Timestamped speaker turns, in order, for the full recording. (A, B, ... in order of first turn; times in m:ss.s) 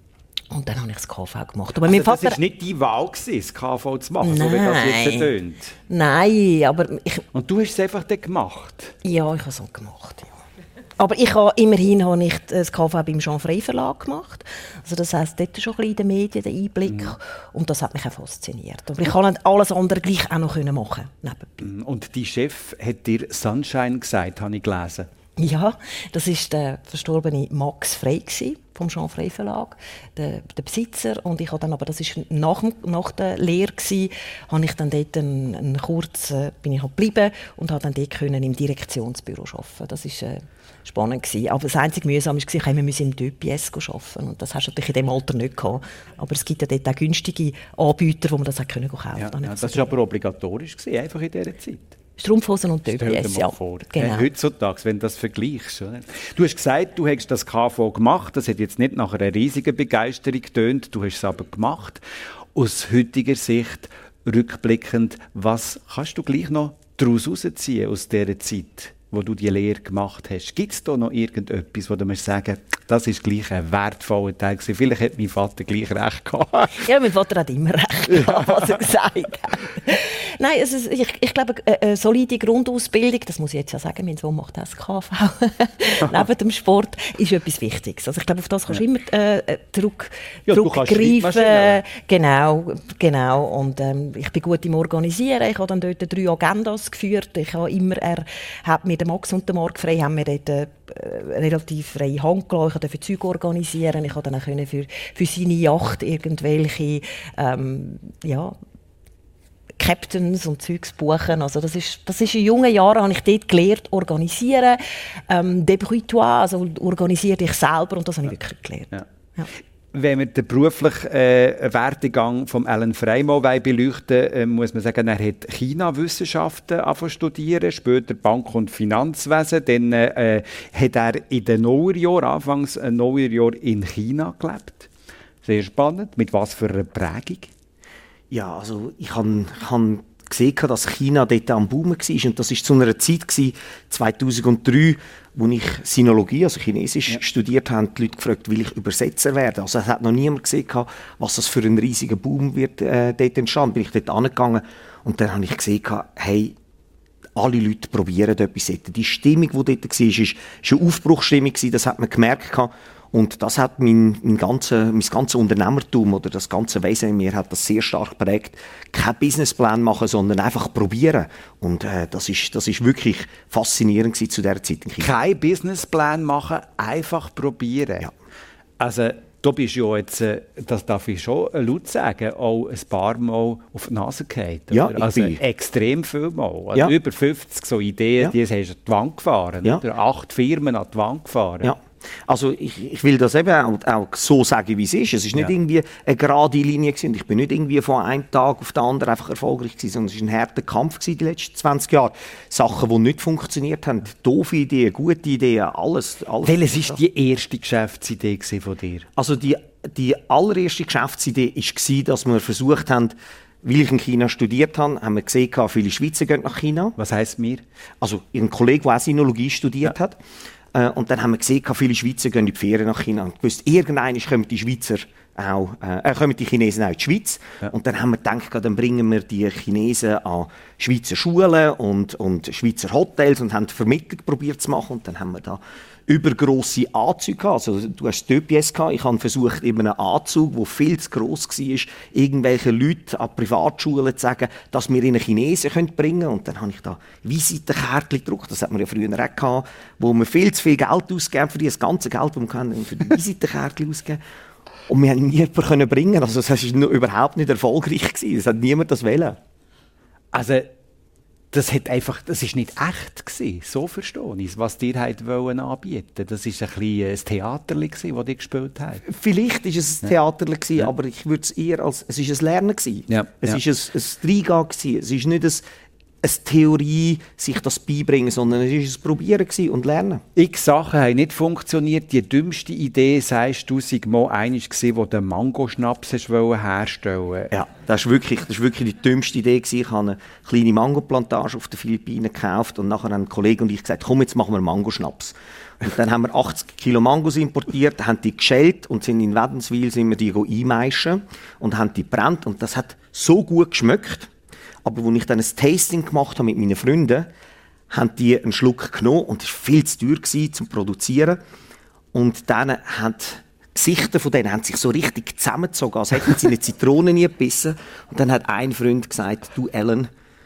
0:00.5-0:02.4 A
0:01.8-0:05.8 B
0:04.2-0:05.3 A
0:05.9-0:07.2 A
0:07.3-0:09.0 B
0:09.0-0:10.3 A
0:11.0-0:21.7 A
0:16.9-0:17.1 B
0:21.6-0:25.1 B
0:25.4-0:49.9 A
0:49.2-0:51.9 B
0:52.2-0:54.3 A
0:52.9-1:02.0 B
1:02.6-1:16.8 B
1:16.7-1:48.6 A
1:18.1-1:18.7 B
1:30.5-1:31.8 B
1:49.8-1:59.5 A
1:59.9-2:14.9 B
2:15.4-2:17.5 B
2:18.3-2:36.6 C
2:37.4-2:55.1 C
2:55.0-2:58.1 B
2:58.8-3:11.7 B
3:04.7-3:05.4 C
3:11.6-3:27.0 C
3:26.4-3:29.1 B
3:29.2-3:37.0 C
3:37.0-3:37.6 B
3:38.0-3:40.2 C
3:40.7-4:14.2 C
4:14.9-4:19.4 C
4:20.3-4:20.7 B
4:21.5-4:29.0 B
4:29.1-4:35.6 C
4:33.1-4:33.6 B
4:36.2-4:40.2 C
4:40.4-4:47.5 B
4:47.5-5:04.3 C
5:04.8-5:07.3 C
5:07.9-5:11.4 C
5:12.1-5:20.1 C